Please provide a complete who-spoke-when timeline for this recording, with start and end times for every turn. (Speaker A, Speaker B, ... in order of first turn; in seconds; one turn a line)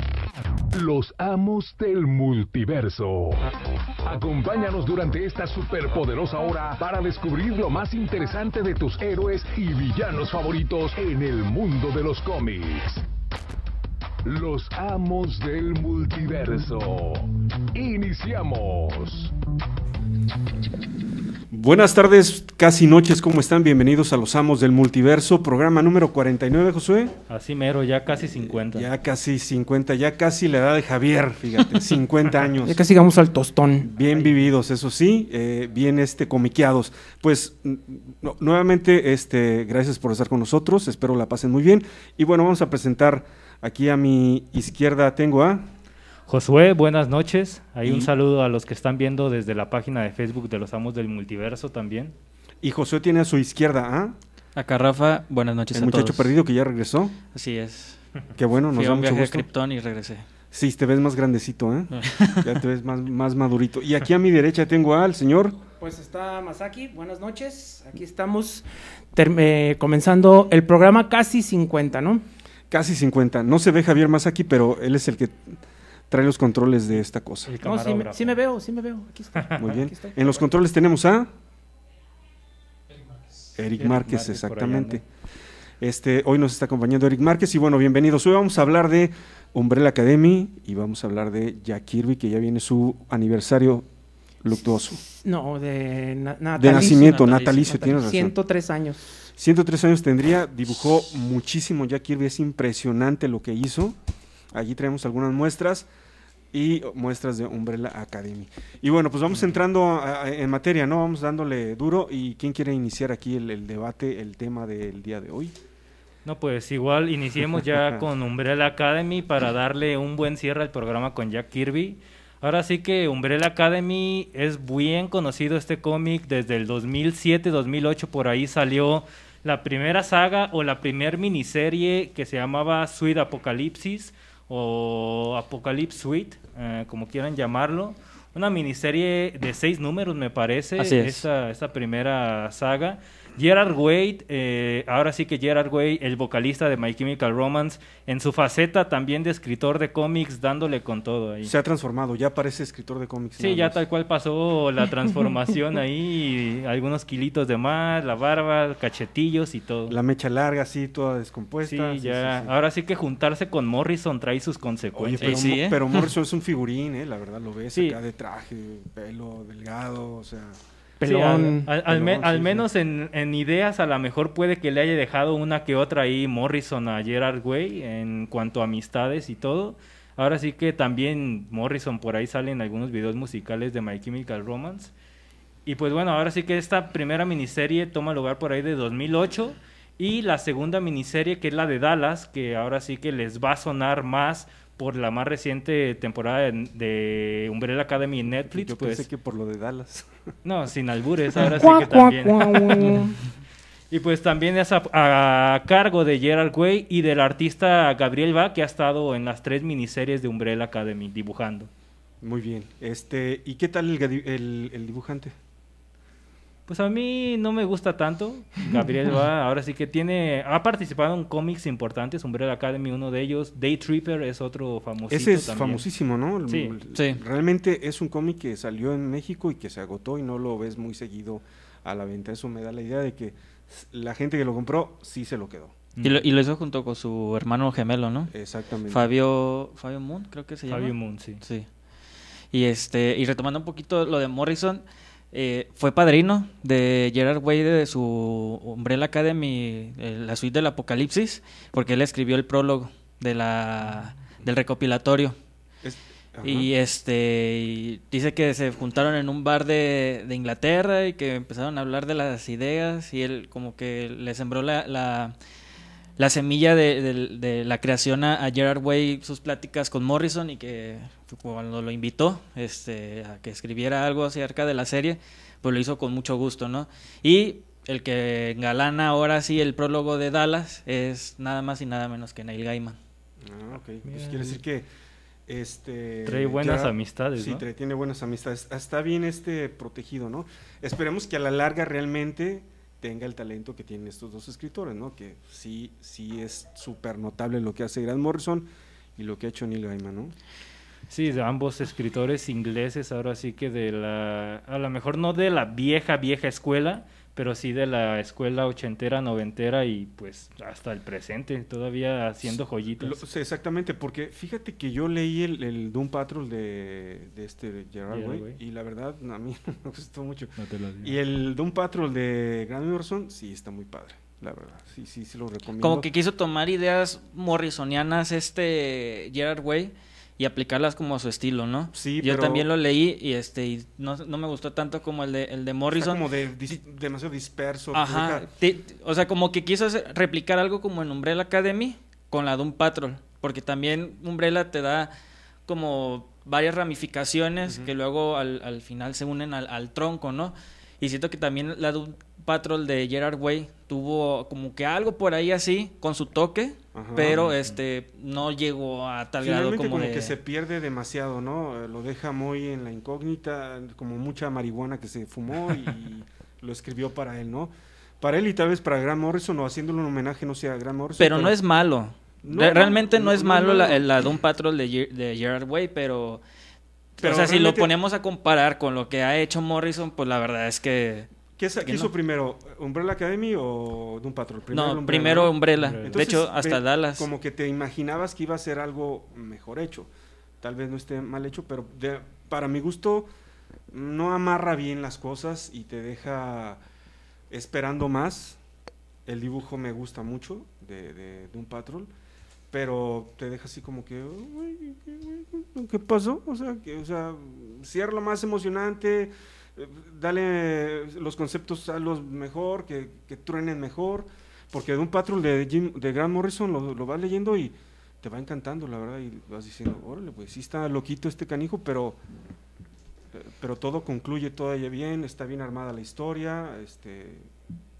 Speaker A: 0.7-13.0
Speaker A: 14.2-19.3
Speaker B: 21.5-27.2
Speaker C: 27.3-28.9
Speaker B: 28.3-32.8
Speaker D: 32.6-33.9
Speaker B: 33.8-45.7
Speaker C: 34.0-34.4
Speaker C: 46.3-52.1
Speaker B: 47.8-48.1
Speaker B: 52.6-54.2
Speaker E: 54.5-56.3
Speaker B: 55.7-57.2
Speaker E: 57.3-58.0
Speaker B: 58.4-59.5
Speaker E: 58.7-60.2
Speaker B: 60.5-65.6
Speaker E: 61.9-62.5
Speaker D: 65.8-72.2
Speaker B: 72.7-75.6
Speaker B: 76.1-77.5
Speaker C: 77.5-78.4
Speaker D: 77.6-80.5
Speaker C: 79.4-79.6
Speaker B: 79.6-81.3
Speaker B: 83.6-85.0
Speaker C: 83.8-85.0
Speaker B: 85.8-93.9
Speaker B: 94.4-95.0
Speaker D: 95.2-99.0
Speaker B: 96.6-98.3
Speaker B: 99.4-104.0
Speaker B: 104.5-105.9
Speaker B: 106.5-115.5
Speaker C: 116.2-151.5
Speaker B: 117.7-118.0
Speaker E: 140.8-141.2
Speaker B: 151.4-153.8
Speaker C: 153.4-159.9
Speaker B: 159.9-162.5
Speaker C: 161.6-165.4
Speaker B: 164.9-170.6
Speaker E: 165.2-166.1
Speaker D: 171.0-171.7
Speaker C: 171.1-184.9
Speaker B: 171.8-172.7
Speaker C: 185.7-199.1
Speaker B: 198.5-200.3
Speaker C: 200.4-203.1
Speaker D: 201.4-203.2
Speaker C: 203.9-211.7
Speaker B: 212.2-215.3
Speaker C: 216.7-225.8
Speaker B: 225.1-235.8
Speaker C: 226.5-226.8
Speaker E: 226.9-227.2
Speaker C: 236.0-236.3
Speaker E: 236.0-238.3
Speaker B: 238.3-239.1
Speaker E: 238.9-241.7
Speaker C: 240.7-241.4
Speaker E: 242.5-255.3
Speaker B: 255.8-256.7
Speaker E: 256.4-265.3
Speaker E: 266.2-283.0
Speaker B: 283.4-284.9
Speaker C: 284.1-284.6
Speaker B: 285.5-300.4
Speaker C: 286.2-287.6
Speaker C: 301.1-313.2
Speaker B: 312.5-326.1
Speaker C: 318.1-318.6
Speaker C: 320.6-321.1
Speaker E: 325.8-336.2
Speaker B: 331.9-332.6
Speaker B: 335.9-338.5
Speaker E: 337.9-345.1
Speaker E: 345.7-360.3
Speaker B: 347.6-347.9
Speaker B: 356.9-357.4
Speaker C: 357.2-357.8
Speaker B: 359.4-371.6
Speaker E: 371.2-376.4
Speaker B: 372.4-374.1
Speaker E: 377.2-381.3
Speaker B: 377.2-377.9
Speaker B: 381.6-390.1
Speaker E: 381.8-382.1
Speaker E: 384.7-387.3
Speaker C: 385.8-386.2
Speaker B: 390.6-393.3
Speaker B: 393.9-396.8
Speaker B: 397.5-398.6
Speaker B: 399.2-402.1
Speaker B: 402.7-422.2
Speaker B: 423.3-427.5